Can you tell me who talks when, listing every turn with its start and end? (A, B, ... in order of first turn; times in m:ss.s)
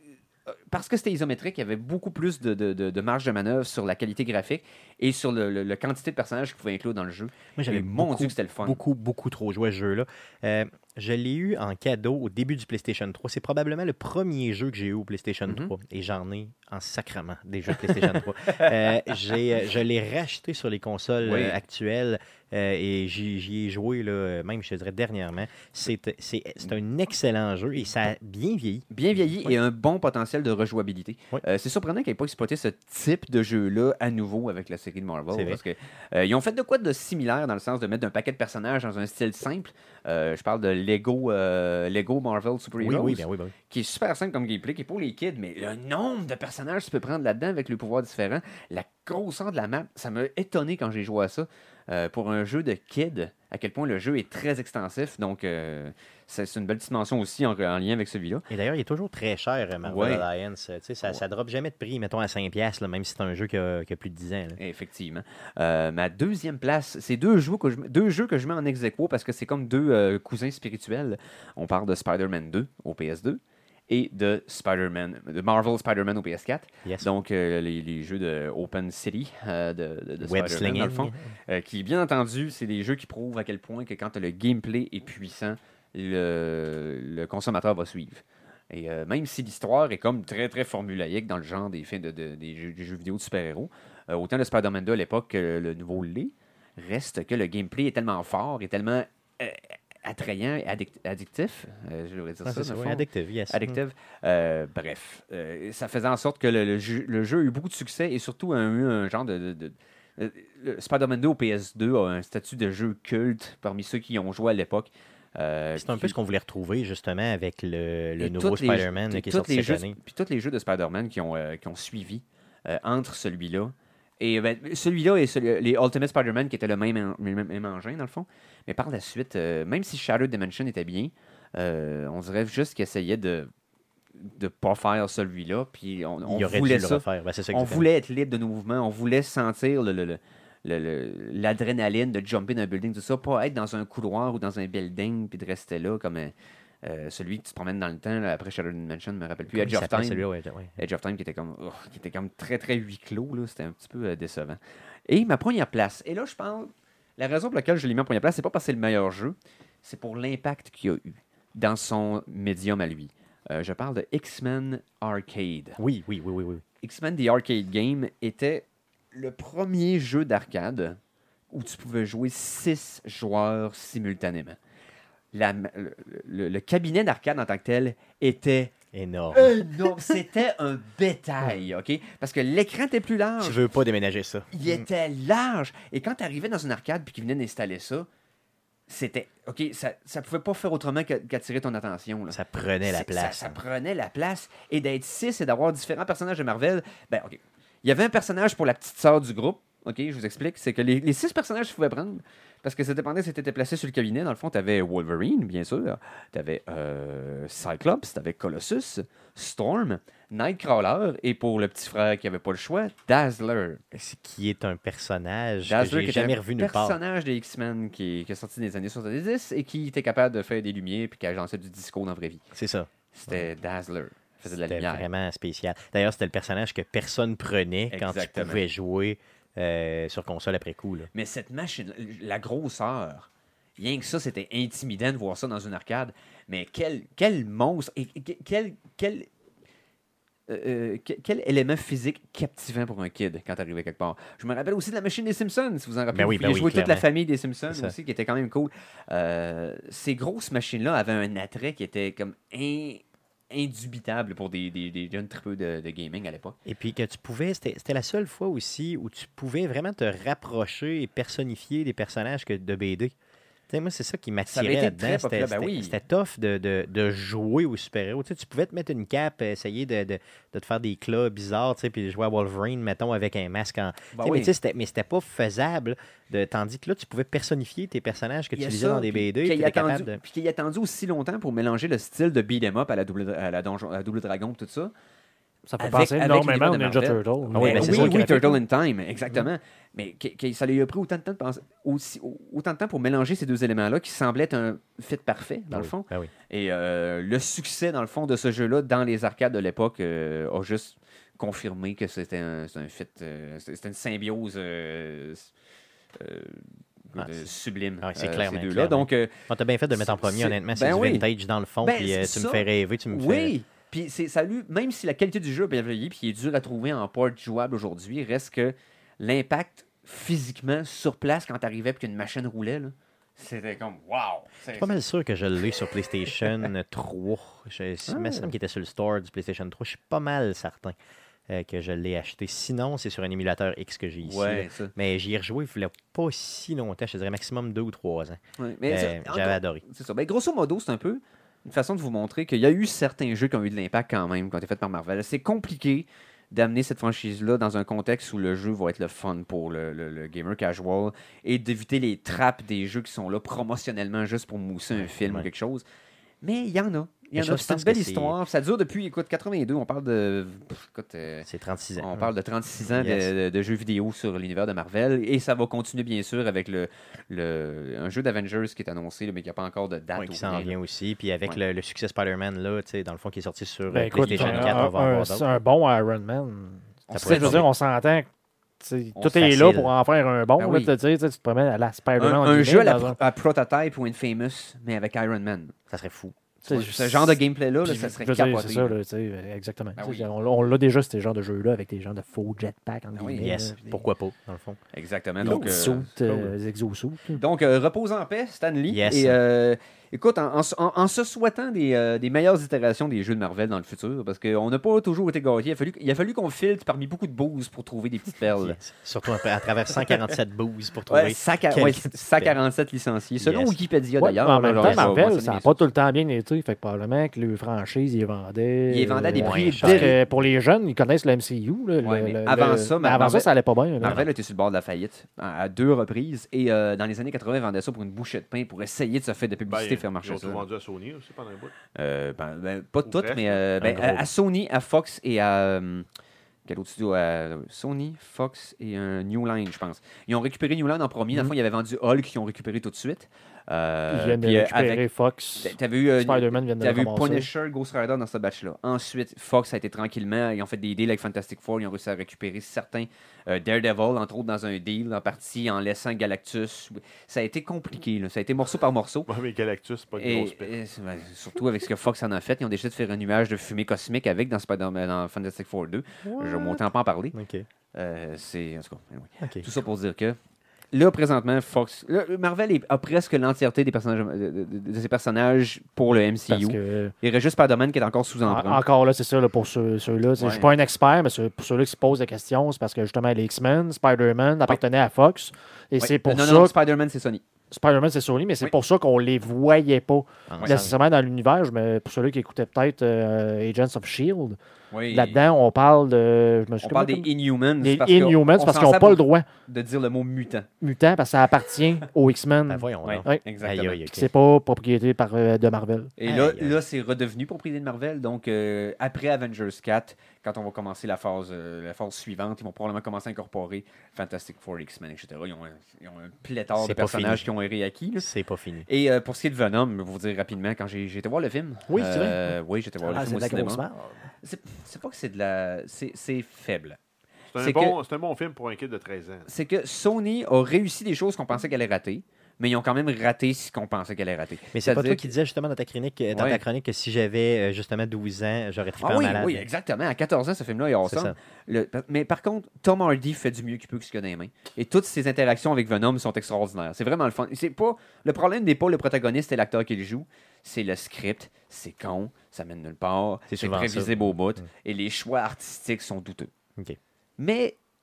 0:00.7-0:08.8 A
0:07.6-0:28.8 B
0:15.5-0:15.7 A
0:17.7-0:18.8 A
0:21.2-0:21.6 A
0:28.9-0:58.5 A
0:35.3-0:35.6 B
0:42.8-0:43.5 B
0:58.5-1:04.6 B
0:59.8-1:00.2 A
1:04.6-1:56.2 A
1:20.2-1:21.2 B
1:42.4-1:43.8 B
1:55.8-2:00.0 B
1:58.2-2:13.5 A
2:14.2-2:30.2 A
2:16.2-2:17.9 B
2:29.5-2:30.8 B
2:30.8-2:45.8 A
2:45.8-2:46.6 B
2:46.8-2:51.0 A
2:51.5-2:54.6 A
2:55.3-2:58.7 A
2:58.9-3:00.2 B
2:59.3-3:03.6 A
3:03.4-3:04.9 B
3:04.5-3:08.1 A
3:08.9-3:33.8 A
3:12.3-3:13.6 B
3:33.9-3:37.0 B
3:35.7-3:42.4 A
3:42.5-3:43.5 B
3:43.1-3:45.1 A
3:44.5-3:51.1 B
3:47.9-3:48.6 A
3:51.1-3:59.3 A
4:00.5-4:16.6 A
4:06.1-4:07.0 B
4:07.7-4:08.0 B
4:16.6-4:23.1 B
4:23.7-4:40.2 B
4:24.5-4:26.0 A
4:34.1-4:34.6 A
4:38.5-4:44.9 A
4:45.7-4:48.6 C
4:45.8-5:05.5 A
4:47.5-4:48.5 B
4:55.7-4:56.3 B
5:06.2-5:09.3 A
5:07.2-5:07.5 B
5:08.0-5:13.5 B
5:09.9-5:11.3 A
5:11.8-5:25.0 A
5:24.7-5:31.0 B
5:28.1-5:28.5 A
5:31.5-5:39.8 B
5:34.2-5:34.9 A
5:38.6-5:55.8 A
5:55.0-5:55.5 B
5:56.4-6:01.5 A
5:57.4-5:58.4 B
6:01.4-6:02.3 B
6:02.0-6:10.8 A
6:02.9-6:03.3 B
6:10.1-6:15.6 B
6:13.9-6:18.3 C
6:14.3-6:14.8 A
6:17.1-6:17.7 A
6:17.1-6:17.7 B
6:18.8-6:23.2 C
6:19.2-6:19.5 A
6:19.3-6:19.9 B
6:20.6-6:20.9 A
6:22.2-6:25.8 A
6:25.9-6:26.4 B
6:26.7-6:29.0 A
6:26.7-6:34.0 C
6:30.0-6:30.3 A
6:33.2-6:33.5 A
6:33.4-6:34.8 B
6:34.9-6:36.1 A
6:35.4-6:36.5 B
6:35.4-6:37.4 C
6:37.4-6:48.8 A
6:38.9-6:39.4 B
6:48.6-6:52.6 B
6:49.9-6:50.2 A
6:51.1-6:55.8 A
6:53.4-6:53.8 B
6:54.2-7:04.3 C
6:54.8-6:55.2 B
6:58.9-7:00.2 A
6:59.3-7:00.2 B
7:02.0-7:10.6 A
7:09.7-7:11.7 D
7:12.0-7:16.1 A
7:13.0-7:13.6 D
7:13.8-7:14.3 B
7:16.7-7:25.0 A
7:24.1-7:27.5 C
7:25.6-7:39.3 A
7:39.3-7:40.7 D
7:40.2-7:47.4 A
7:46.2-7:47.7 B
7:47.9-7:50.4 A
7:49.4-7:49.7 B
7:50.9-7:58.8 A
7:56.5-7:57.1 C
7:58.5-8:06.7 C
8:00.4-8:00.7 A
8:06.0-8:07.4 A
8:07.7-8:14.6 C
8:10.5-8:11.0 B
8:10.6-8:10.9 A
8:14.9-8:15.4 A
8:15.1-8:17.3 C
8:16.8-8:20.7 A
8:17.8-8:19.5 C
8:20.8-8:23.4 C
8:22.7-8:24.3 B
8:23.0-8:24.0 A
8:24.1-8:26.1 C
8:26.2-8:38.3 A
8:26.2-8:26.8 B
8:36.8-8:37.5 B
8:38.2-8:38.9 B
8:38.9-8:43.8 A
8:41.9-8:42.4 B
8:43.0-8:44.2 C
8:44.4-8:47.0 A
8:47.5-8:49.5 D
8:47.6-8:48.0 A
8:49.5-8:55.3 A
8:54.7-8:59.7 B
8:56.3-8:56.6 A
8:59.0-9:16.5 A
9:01.0-9:01.4 B
9:13.5-9:14.6 B
9:17.4-9:17.8 A